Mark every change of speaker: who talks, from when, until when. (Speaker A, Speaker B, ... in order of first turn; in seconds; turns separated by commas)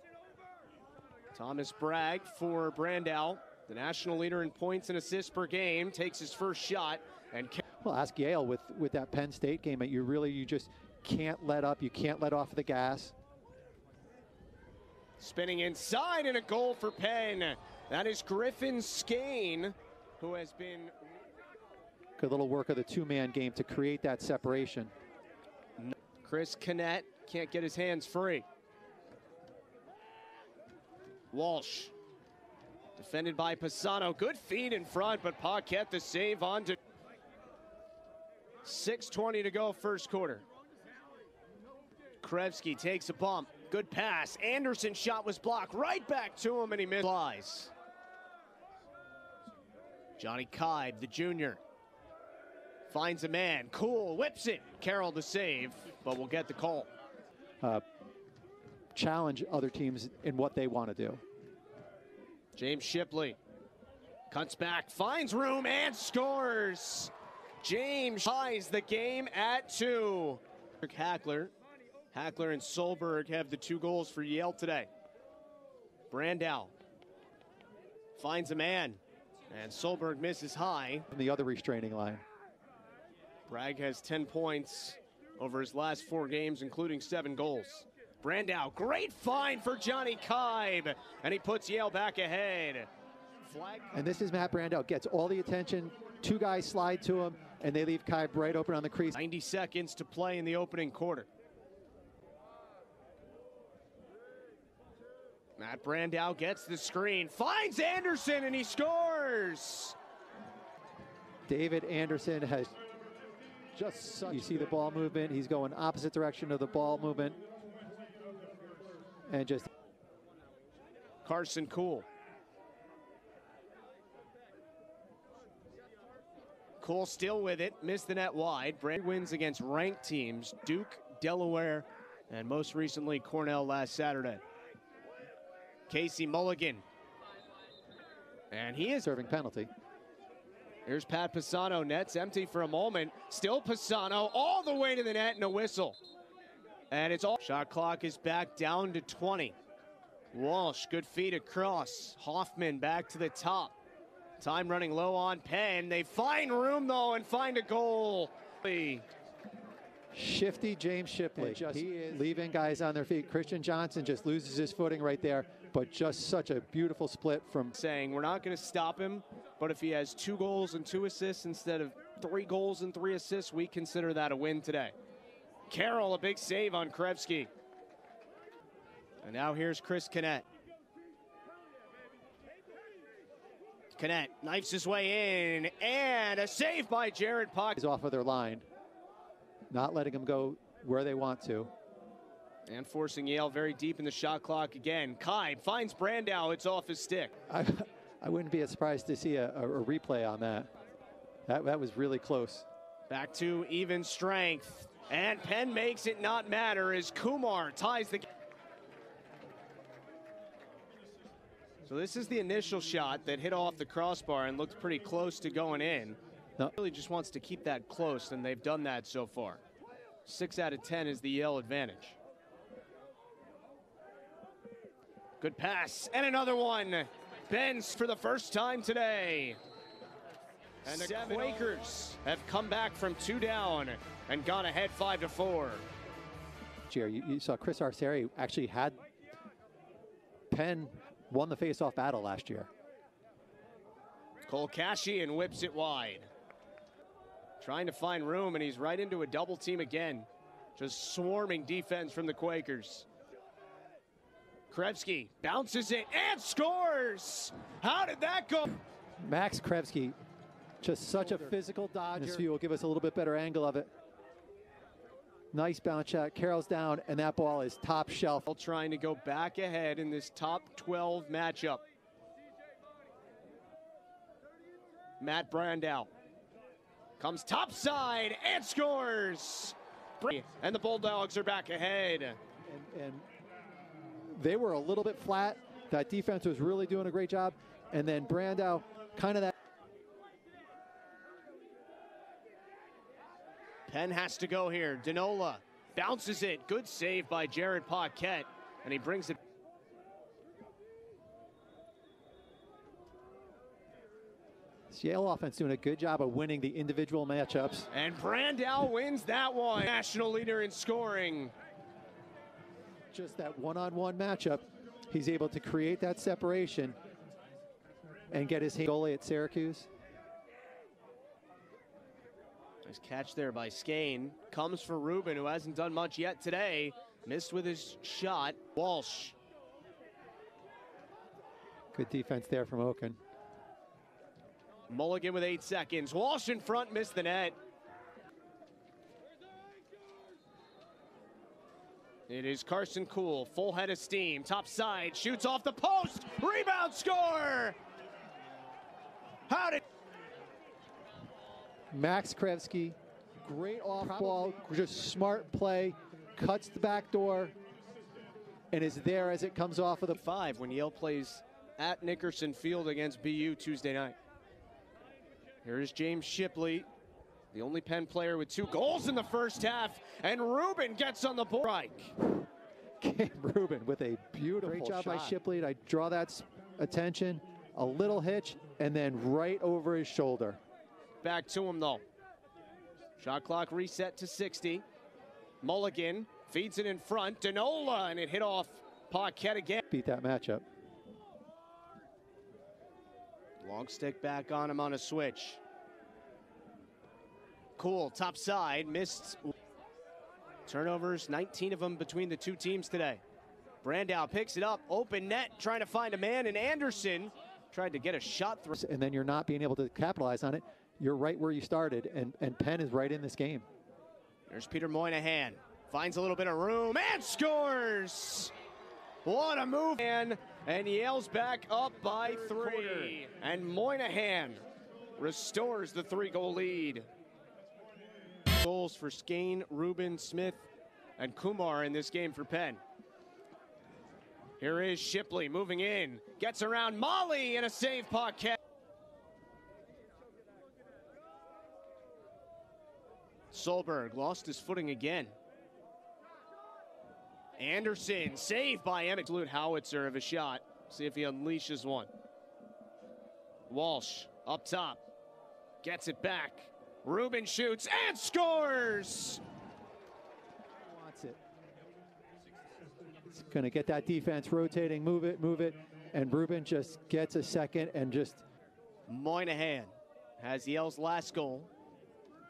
Speaker A: 1.3-7.6, Speaker B: 7.8-13.1, Speaker A: 15.2-20.9, Speaker B: 22.2-24.9, Speaker A: 25.8-28.4, Speaker A: 31.3-31.9, Speaker A: 33.0-36.8, Speaker A: 38.6-40.4, Speaker A: 42.2-47.7, Speaker A: 50.2-51.6, Speaker A: 52.9-56.9, Speaker B: 58.9-61.2, Speaker A: 62.5-63.4, Speaker A: 64.3-71.5, Speaker A: 72.1-74.9, Speaker A: 76.1-76.7, Speaker A: 78.2-81.1, Speaker B: 81.1-82.2, Speaker A: 83.5-92.9, Speaker A: 93.4-94.0, Speaker B: 93.9-99.2, Speaker A: 99.1-101.3, Speaker A: 105.6-110.0, Speaker B: 111.5-112.7, Speaker B: 113.8-117.4, Speaker B: 119.3-119.7, Speaker A: 121.2-122.1, Speaker A: 126.8-134.4, Speaker A: 135.9-136.8, Speaker A: 138.5-139.1, Speaker B: 139.0-139.7, Speaker A: 140.8-146.0, Speaker A: 146.9-149.6, Speaker A: 150.3-153.8, Speaker A: 154.4-159.1, Speaker B: 160.1-167.7, Speaker A: 167.7-174.9, Speaker A: 175.7-177.5, Speaker A: 179.2-180.4, Speaker A: 183.9-187.8, Speaker B: 187.8-188.7, Speaker B: 189.7-191.7, Speaker A: 192.7-197.3, Speaker B: 197.5-200.7, Speaker B: 201.5-202.7, Speaker A: 203.1-208.3, Speaker A: 211.8-216.2, Speaker A: 216.8-219.6, Speaker A: 220.2-222.2, Speaker A: 225.4-229.6, Speaker A: 230.8-235.8, Speaker B: 236.9-239.0, Speaker B: 240.5-242.7, Speaker A: 244.5-246.3, Speaker A: 247.6-253.1, Speaker A: 254.7-258.8, Speaker B: 259.2-260.1, Speaker B: 260.8-263.9, Speaker B: 265.5-268.4, Speaker A: 268.4-271.8, Speaker A: 275.2-276.1, Speaker A: 277.2-282.4, Speaker B: 282.6-283.3, Speaker B: 284.3-289.5, Speaker A: 293.9-299.4, Speaker B: 304.9-307.9, Speaker A: 307.9-311.5, Speaker B: 313.1-316.9, Speaker B: 318.3-319.9, Speaker A: 322.8-329.3, Speaker B: 331.9-333.2, Speaker A: 334.9-337.6, Speaker A: 342.3-347.8, Speaker A: 349.5-349.8, Speaker B: 351.9-357.5, Speaker B: 358.7-360.2, Speaker A: 360.1-364.1, Speaker A: 365.6-366.9, Speaker A: 367.5-372.1, Speaker B: 373.0-380.6, Speaker A: 374.7-375.3, Speaker A: 381.2-382.0, Speaker A: 383.2-384.8, Speaker A: 385.6-389.8, Speaker B: 389.8-390.6, Speaker A: 393.6-395.6, Speaker A: 397.8-399.5, Speaker A: 400.6-403.2, Speaker A: 403.8-408.8, Speaker B: 408.8-413.6, Speaker A: 414.5-418.5, Speaker A: 419.2-424.6, Speaker A: 425.2-427.1, Speaker A: 428.5-432.8, Speaker A: 434.6-438.6, Speaker A: 443.5-445.3, Speaker A: 447.6-452.1, Speaker A: 453.7-455.0, Speaker A: 455.8-459.4, Speaker B: 460.8-461.4, Speaker B: 463.3-468.4, Speaker A: 469.1-471.7